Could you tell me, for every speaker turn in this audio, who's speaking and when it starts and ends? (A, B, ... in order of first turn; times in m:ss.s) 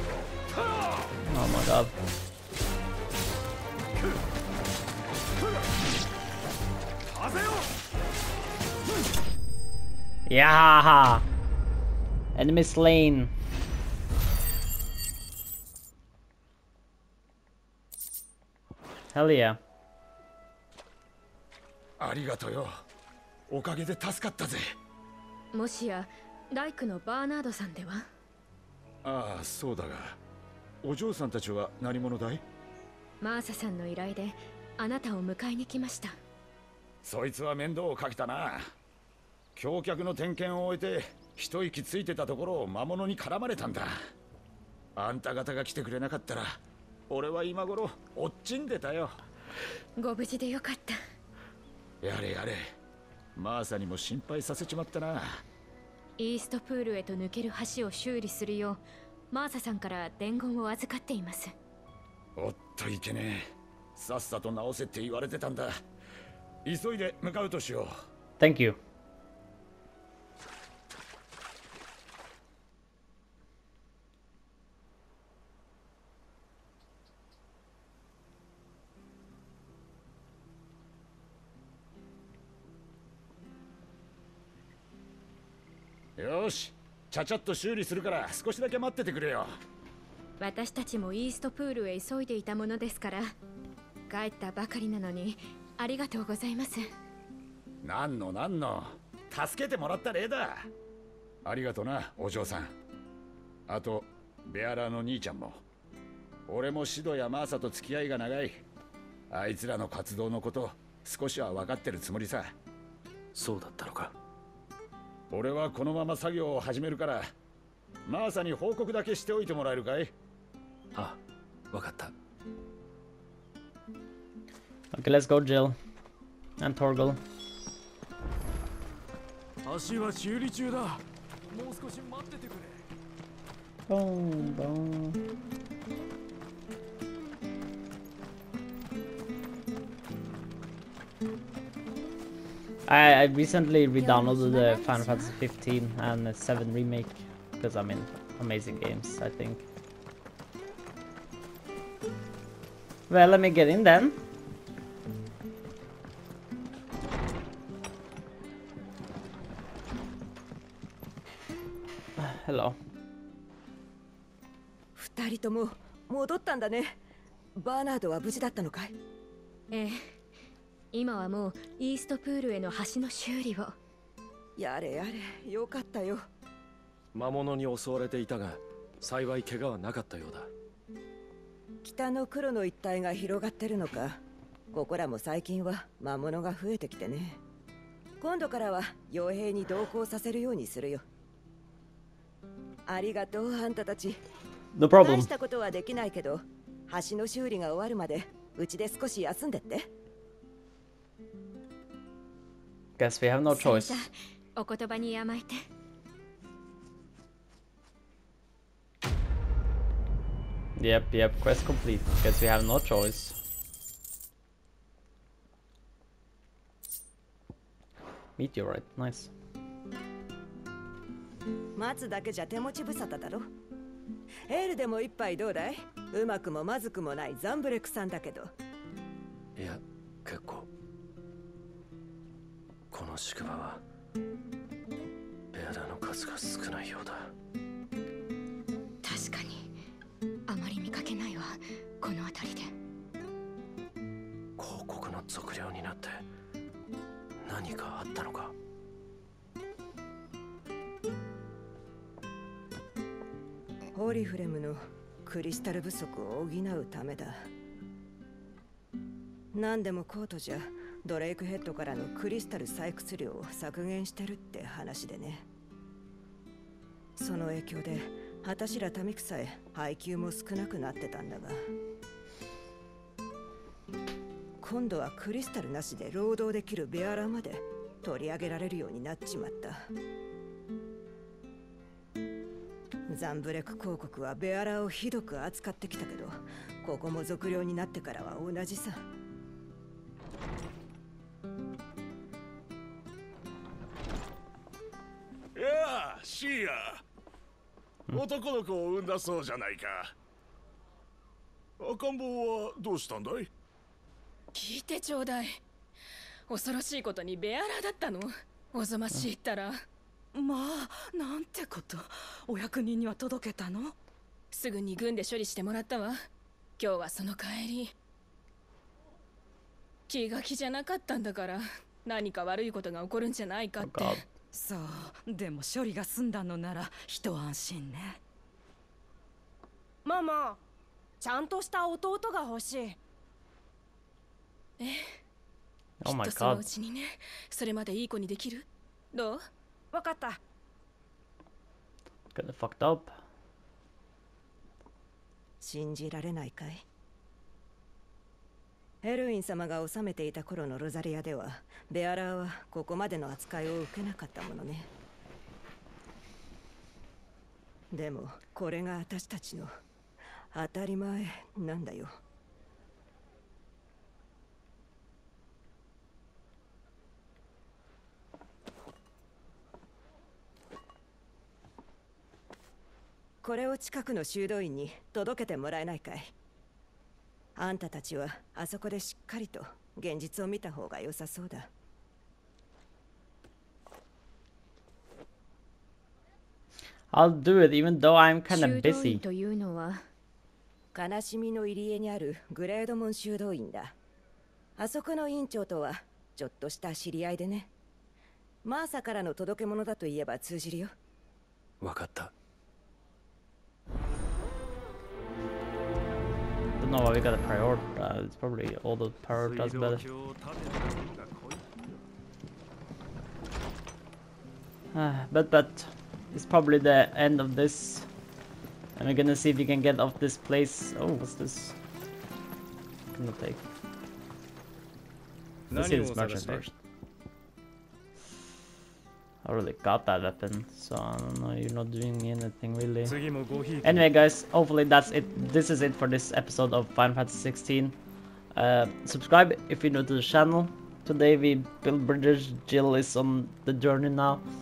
0:00.5-0:01.1 A
0:01.2-0:01.9 B
0:07.1-0:07.7 A
0:10.3-0:11.2 B
0:12.3-0:13.3 B
0:19.1-0:19.6 B
0:22.0-0:22.8 C
0:23.5-0:24.7 C
0:25.5-0:28.1 D
0:29.0-0:30.2 C
0:30.8-0:32.4 C
0:33.2-0:36.2 D
0:37.0-0:38.7 C
0:39.6-0:44.0 C
0:45.0-0:49.2 C
0:50.0-0:51.0 D
0:52.0-0:52.6 C
0:53.4-0:55.4 C
0:56.2-1:01.5 D
1:02.4-1:05.7 C
1:06.6-1:07.9 C
1:08.4-1:08.8 B
1:26.2-1:29.6 C
1:30.4-1:33.3 D
1:34.1-1:36.9 D
1:37.8-1:40.7 C
1:41.4-1:42.7 C
1:43.7-1:45.6 C
1:46.5-1:48.6 C
1:49.3-1:52.5 C
1:53.3-1:54.1 E
1:55.3-1:57.3 C
1:58.1-2:00.1 C
2:01.7-2:02.1 E
2:04.9-2:05.8 B
2:06.6-2:07.2 B
2:09.6-2:12.9 A
2:13.9-2:15.2 B
2:22.9-2:29.6 B
2:24.0-2:25.4 D
2:33.1-2:34.2 B
2:42.2-2:42.8 B
2:45.0-2:47.0 F
2:47.6-2:48.9 F
2:49.7-2:50.2 D
2:50.9-2:53.8 D
2:54.6-2:56.2 F
2:57.1-3:00.5 E
3:01.8-3:04.2 F
3:04.7-3:07.4 F
3:08.2-3:11.0 F
3:12.9-3:14.2 F
3:14.7-3:15.3 B
3:15.0-3:19.9 F
3:23.0-3:24.1 B
3:23.5-3:25.6 D
3:30.8-3:33.4 B
3:38.4-3:39.3 B
3:41.8-3:43.5 F
3:44.5-3:48.5 F
3:49.6-3:50.7 E
3:52.9-3:53.8 E
3:55.5-3:57.3 E
3:59.0-3:59.8 D
4:00.5-4:02.7 D
4:04.6-4:06.2 E
4:07.4-4:08.5 E
4:13.9-4:17.4 F
4:19.5-4:25.4 F
4:27.2-4:31.6 F
4:34.6-4:39.8 F
4:43.1-4:49.0 F
4:55.5-4:57.0 G
4:58.1-5:00.1 G
5:01.8-5:03.5 G
5:04.5-5:05.6 H
5:06.5-5:09.8 H
5:10.3-5:13.9 I
5:14.5-5:16.2 H
5:16.8-5:17.9 H
5:20.1-5:24.2 H
5:23.8-5:24.2 B
5:24.5-5:28.2 I
5:30.0-5:30.6 J
5:31.2-5:33.0 J
5:34.8-5:35.2 H
5:36.0-5:36.7 B
5:36.0-5:39.4 H
5:39.9-5:40.4 J
5:42.3-5:43.2 B
5:45.6-5:46.8 F
5:49.0-5:54.9 F
5:57.9-5:59.7 F
6:00.5-6:02.1 F
6:13.4-6:16.3 F
6:17.6-6:21.7 F
6:27.1-6:29.2 B
6:28.5-6:30.0 D
6:30.9-6:33.9 F
6:34.8-6:37.7 F
6:38.6-6:40.9 F
6:41.8-6:42.3 E
6:46.8-6:50.0 B
6:49.3-6:52.0 A
6:54.9-6:58.1 B
6:59.0-7:01.8 B
7:03.1-7:03.6 B
7:05.7-7:06.7 B
7:05.7-7:06.6 G
7:05.8-7:06.6 A
7:09.4-7:13.2 B
7:13.0-7:14.1 A
7:13.8-7:18.0 B
7:18.5-7:24.4 B